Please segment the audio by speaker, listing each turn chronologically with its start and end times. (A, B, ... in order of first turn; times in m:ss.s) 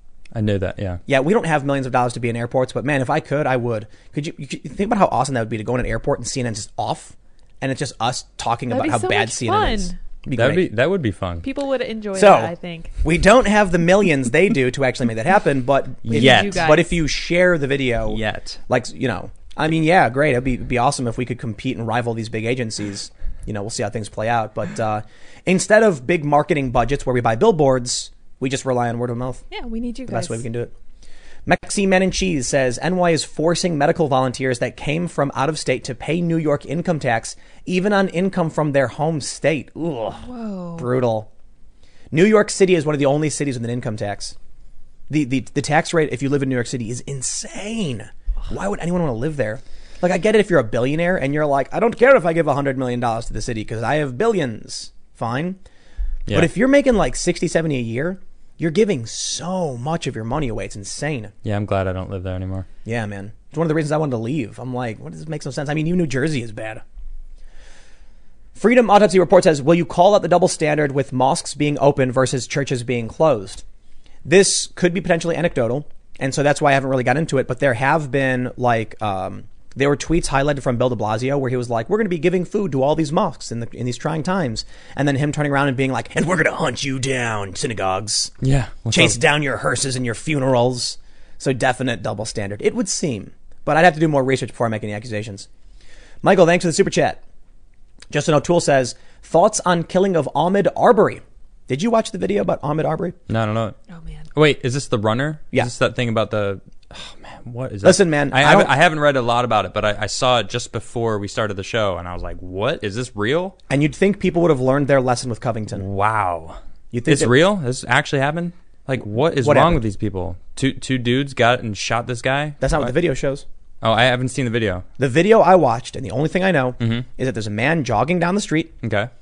0:00.3-0:01.0 A
0:01.1-0:10.7 B
0:08.7-0:10.0 C
0:10.3-0:11.4 A
0:11.4-0:12.9 C
0:12.1-0:29.4 B
0:16.0-0:16.7 A
0:16.1-0:16.9 C
0:18.0-0:18.6 A
0:29.5-0:30.4 C
0:30.1-0:30.7 B
0:31.4-0:40.2 B
0:40.2-0:40.9 C
0:40.8-0:41.3 B
0:42.1-0:44.3 B
0:45.1-0:55.6 B
0:56.3-1:01.3 B
1:01.4-1:02.7 A
1:02.8-1:06.8 B
1:08.6-1:13.6 B
1:14.2-1:28.3 B
1:28.4-1:29.2 A
1:28.9-1:35.5 B
1:36.2-1:37.2 B
1:38.1-1:43.2 B
1:43.3-1:43.8 A
1:43.9-1:44.2 C
1:44.3-1:53.6 A
1:47.8-1:48.7 B
1:53.7-1:55.8 B
1:55.7-2:02.9 A
1:56.9-1:57.3 B
1:59.4-1:59.8 B
2:02.6-2:03.4 B
2:03.8-2:04.8 A
2:05.0-2:08.7 B
2:06.8-2:07.0 A
2:08.8-2:09.1 A